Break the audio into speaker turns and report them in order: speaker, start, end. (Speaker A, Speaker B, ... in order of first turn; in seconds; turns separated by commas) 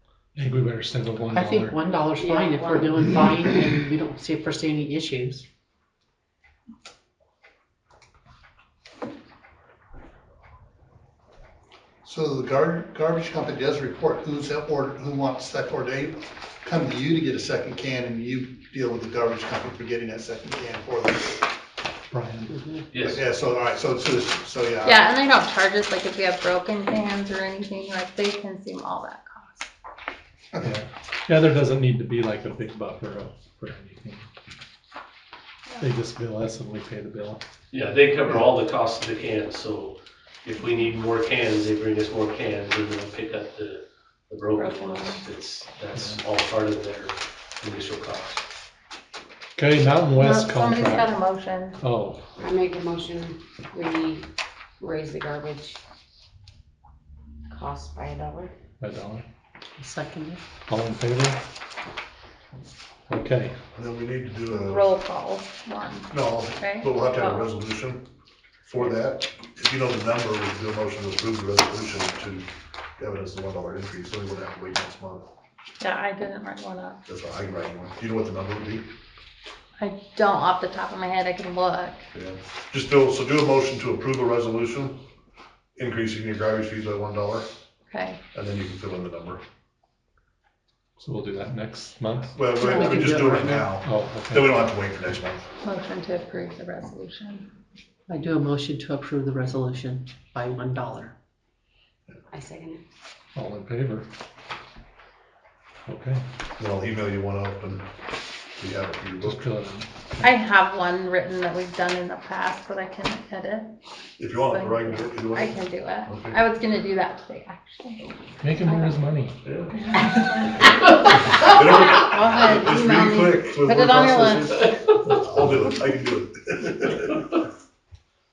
Speaker A: 0.3-1.8, Speaker B: 1.3-5.4, Speaker C: 2.2-3.4, Speaker D: 12.0-21.4, Speaker A: 22.1-22.6, Speaker B: 22.5-22.8, Speaker E: 22.9-23.2, Speaker D: 23.0-25.1, Speaker F: 24.8-29.7, Speaker A: 30.6-34.3, Speaker A: 35.8-37.4, Speaker E: 37.7-48.4, Speaker F: 44.6-45.2, Speaker A: 45.9-46.2, Speaker A: 49.5-51.1, Speaker F: 50.1-51.8, Speaker A: 51.8-52.2, Speaker C: 52.4-55.8, Speaker C: 57.5-58.5, Speaker A: 58.8-59.2, Speaker B: 59.8-60.4, Speaker A: 60.7-61.4, Speaker A: 63.1-63.5, Speaker G: 63.7-64.9, Speaker F: 64.6-67.5, Speaker G: 66.1-68.0, Speaker G: 68.7-75.3, Speaker F: 75.8-77.0, Speaker G: 77.1-78.9, Speaker F: 79.8-82.0, Speaker G: 82.1-85.0, Speaker G: 85.8-87.5, Speaker F: 87.9-88.2, Speaker G: 88.3-89.4, Speaker A: 91.0-94.6, Speaker G: 92.3-95.4, Speaker B: 92.6-93.7, Speaker F: 95.6-97.5, Speaker B: 98.1-101.1, Speaker C: 102.3-102.8, Speaker A: 103.3-104.0, Speaker A: 105.8-106.2, Speaker G: 106.6-107.9, Speaker G: 108.6-109.5, Speaker A: 109.2-110.3, Speaker F: 110.2-113.7, Speaker G: 114.2-116.4, Speaker F: 114.4-118.9, Speaker A: 118.4-119.4, Speaker F: 119.7-124.8, Speaker G: 121.3-127.2